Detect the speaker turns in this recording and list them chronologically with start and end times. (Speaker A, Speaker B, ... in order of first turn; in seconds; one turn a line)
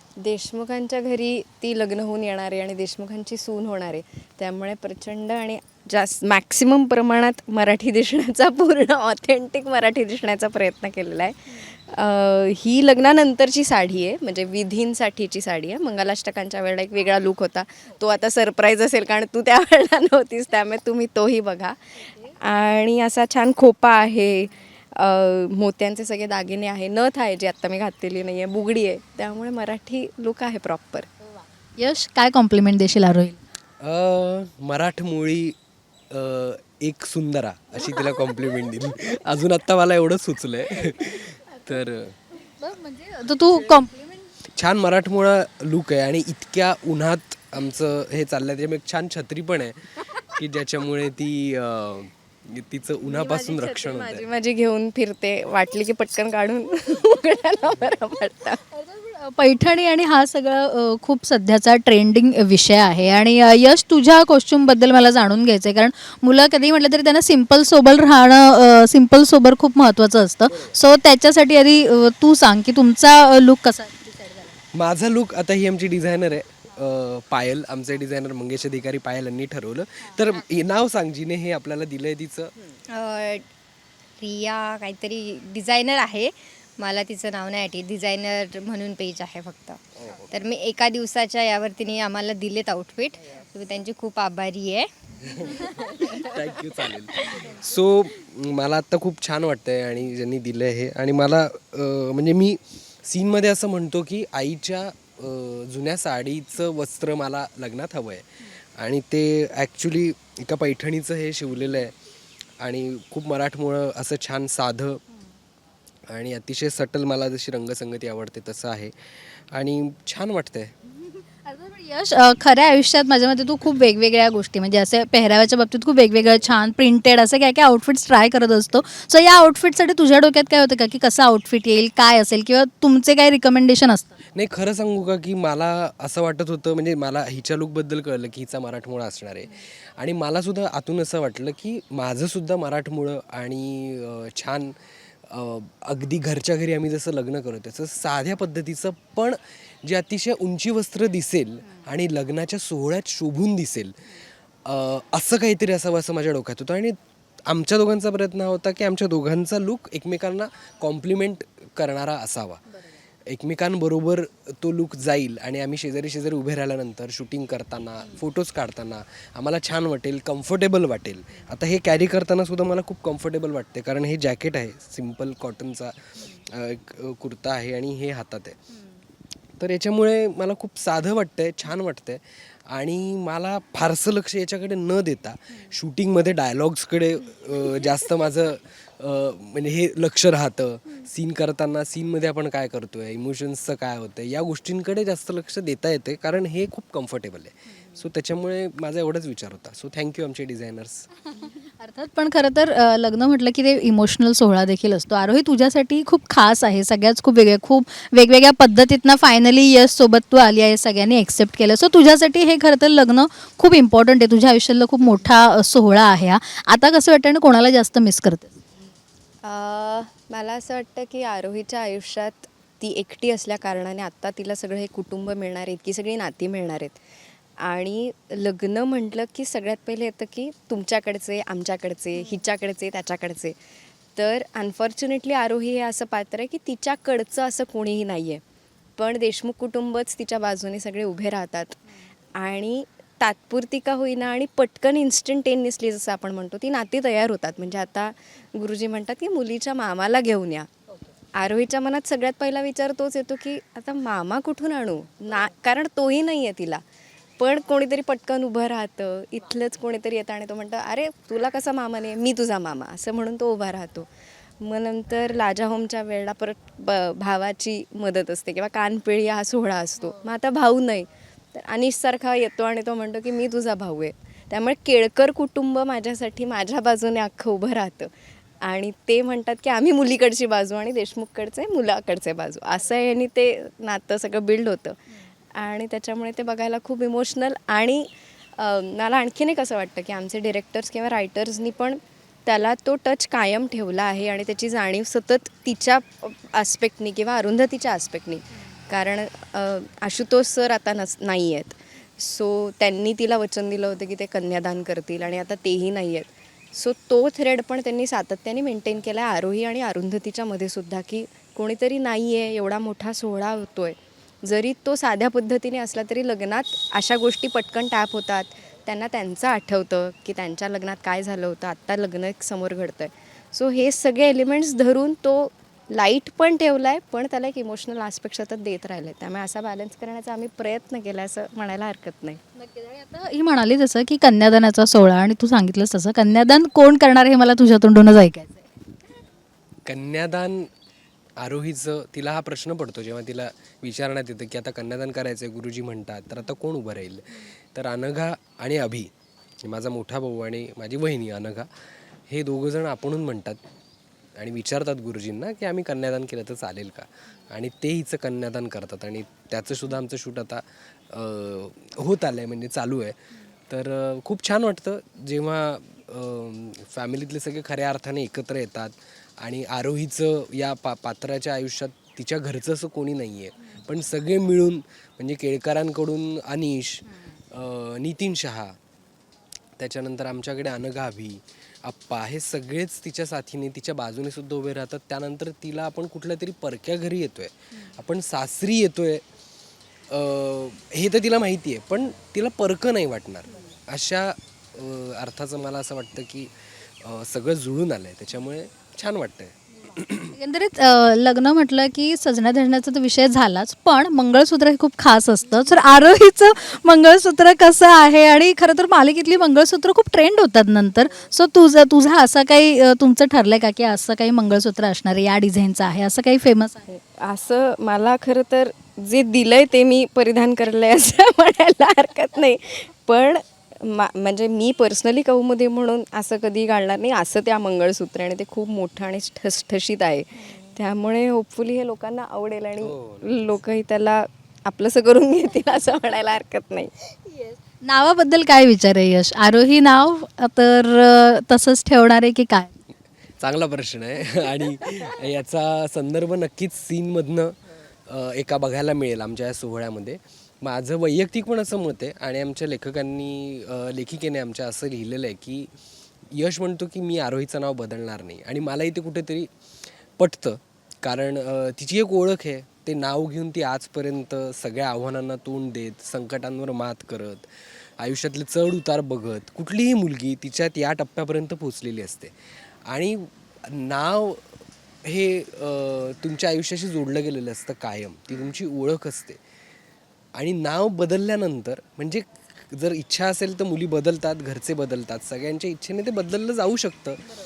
Speaker A: 0.2-31.1
Speaker B: 31.4-33.4
Speaker C: 33.8-35.6
Speaker C: 36.1-42.2
Speaker A: 38.0-38.4
Speaker B: 42.5-44.2
Speaker C: 44.5-54.3
Speaker A: 53.0-58.6
Speaker B: 58.7-74.5
Speaker C: 70.5-70.8
Speaker C: 74.7-82.5
Speaker D: 82.9-83.5
Speaker D: 84.2-89.8
Speaker C: 90.0-90.3
Speaker D: 90.3-94.9
Speaker C: 95.3-112.0
Speaker A: 95.7-96.3
Speaker C: 112.6-115.0
Speaker C: 116.1-120.7
Speaker B: 121.3-134.2
Speaker C: 134.4-144.8
Speaker C: 145.3-154.0
Speaker C: 154.7-162.6
Speaker C: 163.3-178.6
Speaker C: 179.6-201.1
Speaker B: 201.7-218.5
Speaker A: 219.4-227.0
Speaker A: 227.6-233.6
Speaker A: 234.2-238.4
Speaker A: 239.0-241.8
Speaker A: 242.4-250.7
Speaker A: 251.3-256.8
Speaker A: 257.4-264.1
Speaker A: 264.6-285.0
Speaker A: 285.6-332.4
Speaker B: 332.6-338.7
Speaker C: 339.9-340.7
Speaker C: 341.4-349.1
Speaker C: 349.6-351.7
Speaker C: 352.3-353.6
Speaker C: 354.4-378.8
Speaker C: 379.8-389.2
Speaker C: 390.1-400.3
Speaker B: 400.3-416.8
Speaker A: 416.9-436.9
Speaker C: 432.8-433.6
Speaker B: 437.8-442.7
Speaker C: 443.4-455.7
Speaker C: 456.3-459.5
Speaker C: 460.2-467.5
Speaker C: 468.0-472.3
Speaker C: 472.9-479.4
Speaker C: 480.4-487.2